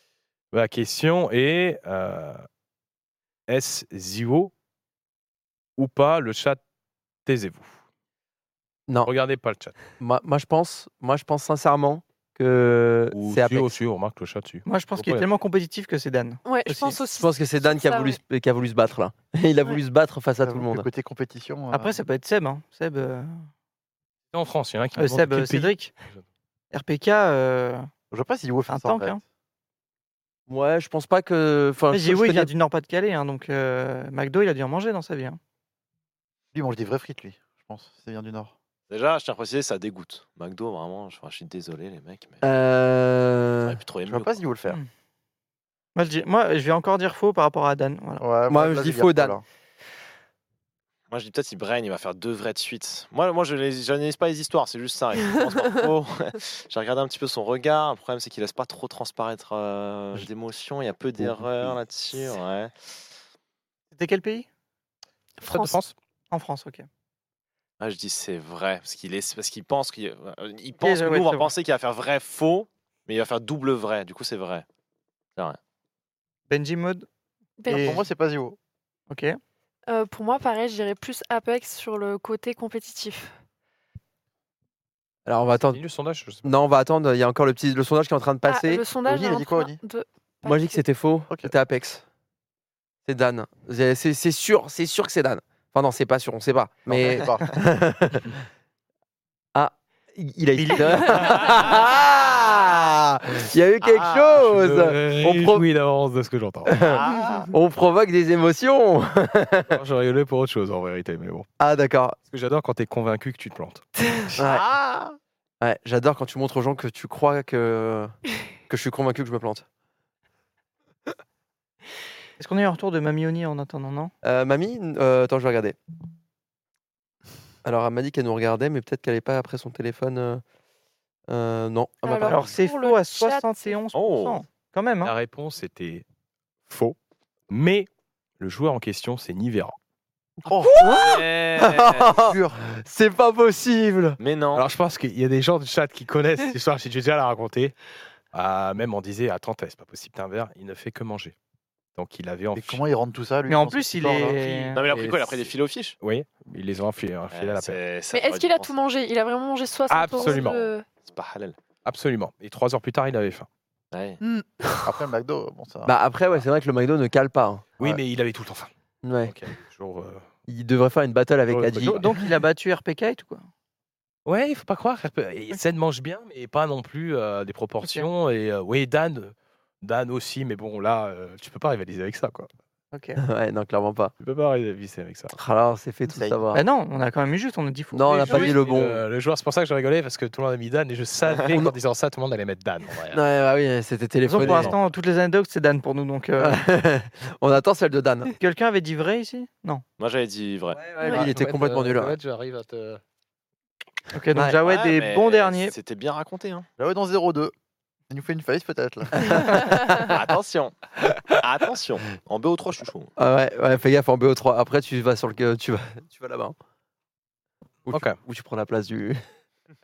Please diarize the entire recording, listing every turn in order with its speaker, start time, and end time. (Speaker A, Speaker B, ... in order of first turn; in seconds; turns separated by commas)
Speaker A: 0.5-2.5, Speaker A: 3.5-4.5, Speaker A: 5.8-6.6, Speaker A: 7.3-7.8, Speaker B: 8.9-9.1, Speaker A: 9.1-9.8, Speaker B: 10.0-13.8, Speaker A: 13.1-15.3, Speaker C: 14.7-16.6, Speaker D: 16.4-18.2, Speaker B: 16.7-20.9, Speaker E: 20.4-22.0, Speaker C: 21.7-23.4, Speaker A: 24.3-26.2, Speaker C: 25.0-25.9, Speaker C: 26.7-27.9, Speaker E: 28.1-29.2, Speaker C: 28.7-29.2, Speaker B: 30.5-32.5, Speaker C: 31.9-35.4, Speaker E: 36.5-38.5, Speaker F: 38.9-42.4, Speaker B: 42.4-43.8, Speaker F: 43.6-44.4, Speaker E: 44.1-44.8, Speaker C: 46.0-48.2, Speaker E: 48.2-49.4, Speaker B: 48.5-49.4, Speaker F: 51.1-62.7, Speaker B: 61.2-61.7, Speaker C: 63.9-64.5, Speaker D: 65.4-65.8, Speaker A: 65.5-66.0, Speaker C: 66.3-66.9, Speaker F: 67.8-74.7, Speaker C: 70.8-71.5, Speaker C: 76.5-77.1, Speaker D: 77.6-78.0, Speaker C: 77.7-78.0, Speaker E: 77.7-78.6, Speaker C: 79.1-79.4, Speaker D: 79.9-83.3, Speaker B: 85.2-85.8, Speaker A: 85.7-86.5, Speaker B: 86.4-88.8, Speaker D: 88.5-90.8, Speaker E: 89.0-89.8, Speaker B: 90.5-92.0, Speaker B: 93.1-98.4, Speaker E: 96.9-97.5, Speaker B: 99.5-105.7, Speaker F: 103.8-104.4, Speaker A: 104.3-106.9, Speaker B: 106.7-109.8, Speaker F: 106.9-107.5, Speaker A: 109.7-111.5, Speaker B: 111.6-112.2, Speaker A: 112.3-113.8, Speaker B: 114.4-114.6, Speaker F: 114.4-115.2, Speaker B: 115.6-118.1, Speaker B: 118.7-119.7, Speaker C: 122.4-124.1, Speaker B: 124.2-125.8, Speaker B: 127.6-130.4, Speaker B: 131.3-132.4, Speaker D: 132.0-133.8, Speaker C: 132.2-135.1, Speaker F: 133.9-134.4, Speaker A: 135.0-136.1, Speaker A: 136.7-137.0, Speaker A: 137.5-137.9, Speaker A: 138.4-139.8, Speaker E: 140.4-140.8, Speaker B: 140.5-144.2, Speaker A: 141.0-142.1, Speaker E: 142.1-142.6, Speaker F: 144.2-144.7, Speaker A: 144.6-147.7, Speaker A: 148.3-151.3, Speaker A: 152.0-152.8, Speaker E: 152.6-154.4, Speaker C: 153.5-154.8, Speaker A: 154.4-155.5, Speaker F: 154.7-156.0, Speaker A: 156.0-157.8, Speaker F: 157.3-158.7, Speaker D: 158.1-160.9, Speaker A: 159.9-160.7, Speaker F: 160.2-160.4, Speaker F: 161.0-161.6, Speaker A: 161.8-163.5, Speaker F: 163.9-164.2, Speaker E: 164.8-165.9, Speaker B: 165.9-168.0, Speaker A: 167.8-168.7, Speaker B: 169.0-169.3, Speaker A: 169.2-170.3, Speaker B: 170.5-172.0, Speaker A: 171.5-172.3, Speaker C: 171.9-173.5, Speaker A: 174.3-182.5, Speaker C: 177.8-178.1, Speaker C: 182.9-183.2, Speaker B: 183.2-184.1, Speaker A: 184.2-185.3, Speaker B: 185.3-186.6, Speaker E: 186.1-186.4, Speaker C: 186.5-188.6, Speaker B: 187.9-189.0, Speaker A: 188.2-193.2, Speaker B: 191.4-191.7, Speaker B: 193.1-194.7, Speaker C: 194.3-196.6, Speaker A: 194.3-194.8, Speaker B: 196.4-198.3, Speaker C: 198.4-199.8, Speaker F: 200.0-200.9, Speaker B: 200.8-202.2, Speaker A: 201.1-203.0, Speaker C: 204.1-205.7, Speaker F: 204.7-206.7, Speaker E: 206.8-207.5, Speaker E: 208.1-209.7, Speaker B: 209.2-209.7, Speaker F: 209.9-213.1, Speaker B: 213.2-216.6, Speaker A: 217.9-218.2, Speaker B: 217.9-219.2